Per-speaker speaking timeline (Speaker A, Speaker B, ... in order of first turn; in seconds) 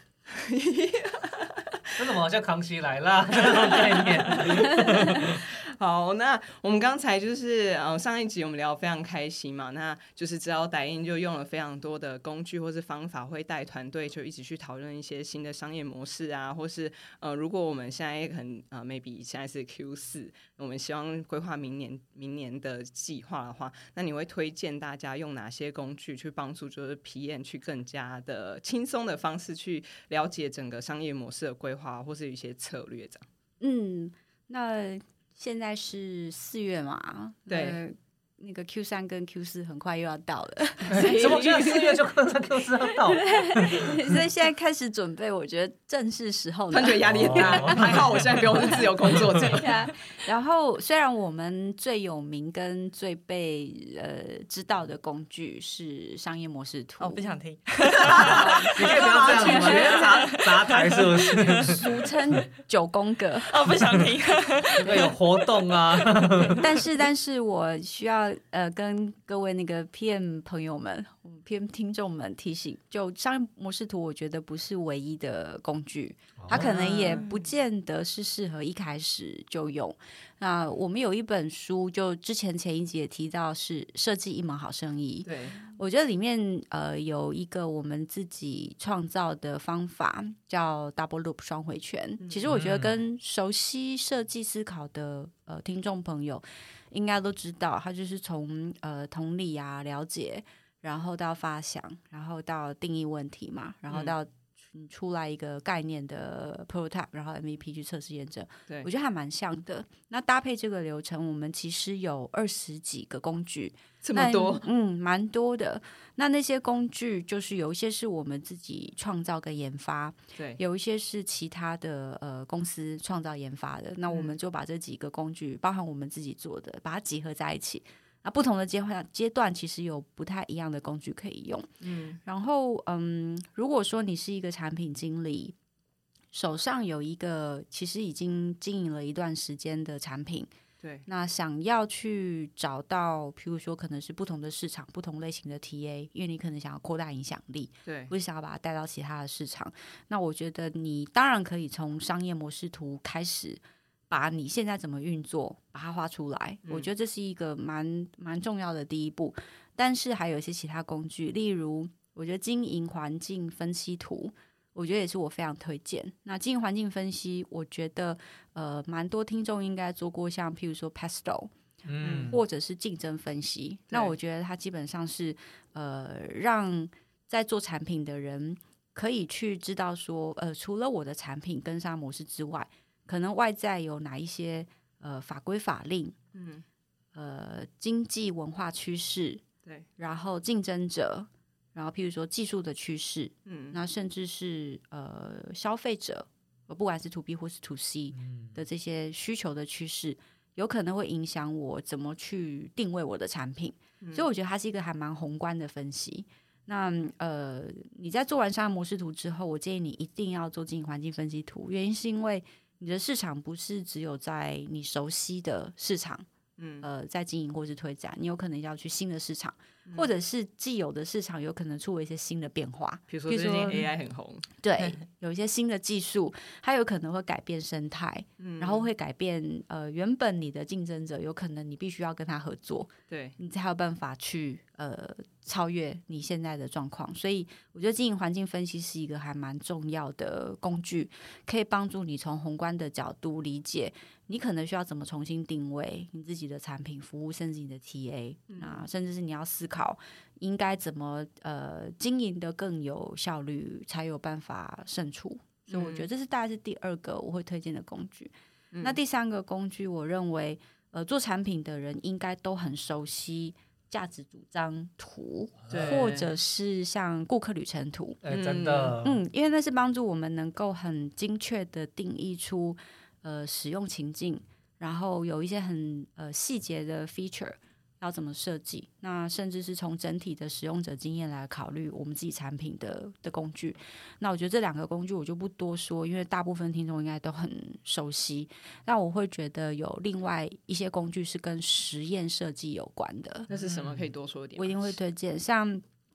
Speaker A: 0.3-1.9, 3.4-33.3, 37.5-37.8, 40.9-41.8, 46.7-49.7, 58.2-60.1, 76.6-77.2, 85.2-85.6, 92.2-92.5, 114.0-114.7, 120.3-120.6, 124.1-124.3, 131.8-132.2, 140.8-141.1, 147.9-148.1, 172.0-172.3, 186.3-186.6, 193.5-193.8, 204.0-204.3, 216.6-216.9, 223.1-224.5, 228.4-228.9, 233.1-233.4, 248.5-248.8, 255.7-256.1, 258.7-259.0, 265.7-266.3, 268.3-269.0, 293.5-295.0
Speaker B: 2.0-5.5, 40.9-44.2, 47.1-49.6, 58.1-61.8, 64.8-66.6, 76.4-77.0, 92.5-93.0, 171.8-172.4, 198.1-198.6, 265.7-266.1, 268.2-269.2, 293.5-294.1
Speaker C: 33.6-42.0, 43.3-48.0, 49.5-57.4, 58.6-60.3, 61.6-63.7, 64.8-65.1, 66.6-131.7, 132.2-135.6, 136.3-140.5, 141.1-171.5, 172.1-186.2, 187.2-189.4, 190.0-216.3, 216.8-223.8, 224.6-268.2, 269.0-293.5, 294.6-295.8
Speaker D: 57.0-62.0, 63.5-65.2, 65.9-66.7, 77.0-77.4